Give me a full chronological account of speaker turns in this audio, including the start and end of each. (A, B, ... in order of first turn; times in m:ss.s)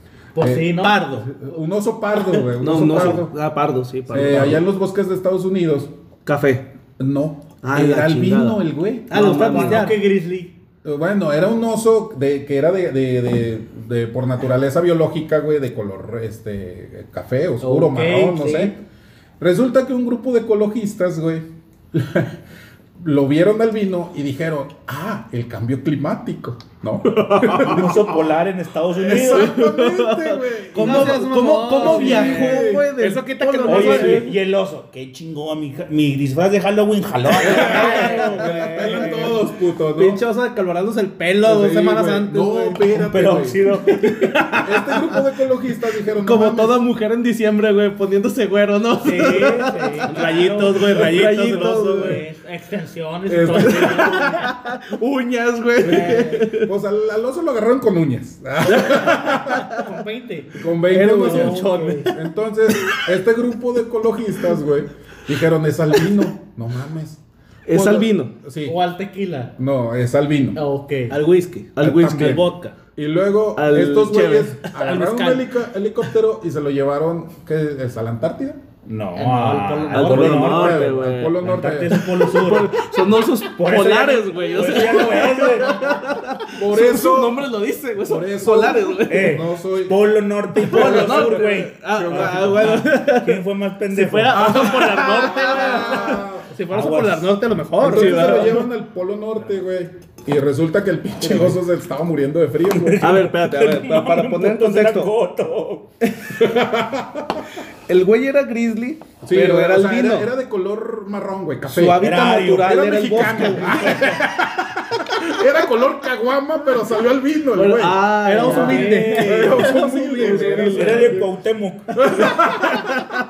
0:00.3-0:01.0 A
0:00.4-0:03.3 B
0:00.7-0:01.3 C
0:02.6-0:04.6 D
0:04.1-0:05.9 B
0:06.2-0:06.7 D
0:07.0-0:09.1 B
0:07.6-0:09.9 D
0:09.1-0:10.0 C
0:09.2-0:10.6 A
0:10.8-0:18.8 B
0:17.6-0:18.7 A
0:19.4-0:22.4 B
0:23.0-0:28.2 B
0:27.5-0:29.6 E
0:28.9-0:32.9 B
0:29.1-0:34.4 D
0:30.7-0:34.3 C
0:33.6-0:38.2 E
0:37.4-0:40.2 B
0:37.4-0:39.4 C
0:37.5-0:39.1 A
0:40.0-0:42.9 C
0:41.4-0:43.6 B
0:42.9-0:44.9 E
0:43.9-0:44.3 A
0:44.6-0:46.8 B
0:46.1-0:52.2 D
0:49.0-0:54.5 A
0:50.0-0:52.2 C
0:53.3-0:54.2 B
0:53.5-0:56.7 D
0:55.8-0:59.8 B
0:58.7-0:59.8 D
0:59.1-1:00.6 A
1:00.5-1:08.8 B
1:00.9-1:02.2 C
1:01.1-1:02.1 A
1:07.6-1:08.3 D
1:08.6-1:09.5 A
1:09.6-1:10.6 B
1:10.5-1:11.2 A
1:11.1-1:11.8 C
1:11.7-1:12.7 D
1:11.8-1:18.6 B
1:13.6-1:14.6 D
1:14.7-1:15.5 C
1:18.8-1:26.1 E
1:19.1-1:20.4 A
1:19.9-1:21.4 D
1:20.3-1:22.1 B
1:21.9-1:29.4 D
1:26.5-1:27.5 B
1:28.0-1:30.0 B
1:29.1-1:34.5 E
1:30.6-1:32.8 B
1:30.6-1:33.4 D
1:33.9-1:36.1 A
1:34.2-1:38.5 C
1:34.3-1:35.7 D
1:34.3-1:36.5 B
1:36.7-1:37.4 E
1:37.8-1:43.2 B
1:37.8-1:38.7 D
1:42.8-1:45.9 E
1:43.0-1:45.1 D
1:46.3-1:47.4 B
1:47.9-1:50.3 D
1:49.2-2:01.3 B
1:51.6-1:54.2 D
1:52.0-1:53.5 E
1:57.5-2:01.2 D
1:58.2-2:00.5 C
1:58.4-1:59.1 A
1:58.4-1:59.1 E
2:00.4-2:02.9 E
2:02.0-2:02.9 B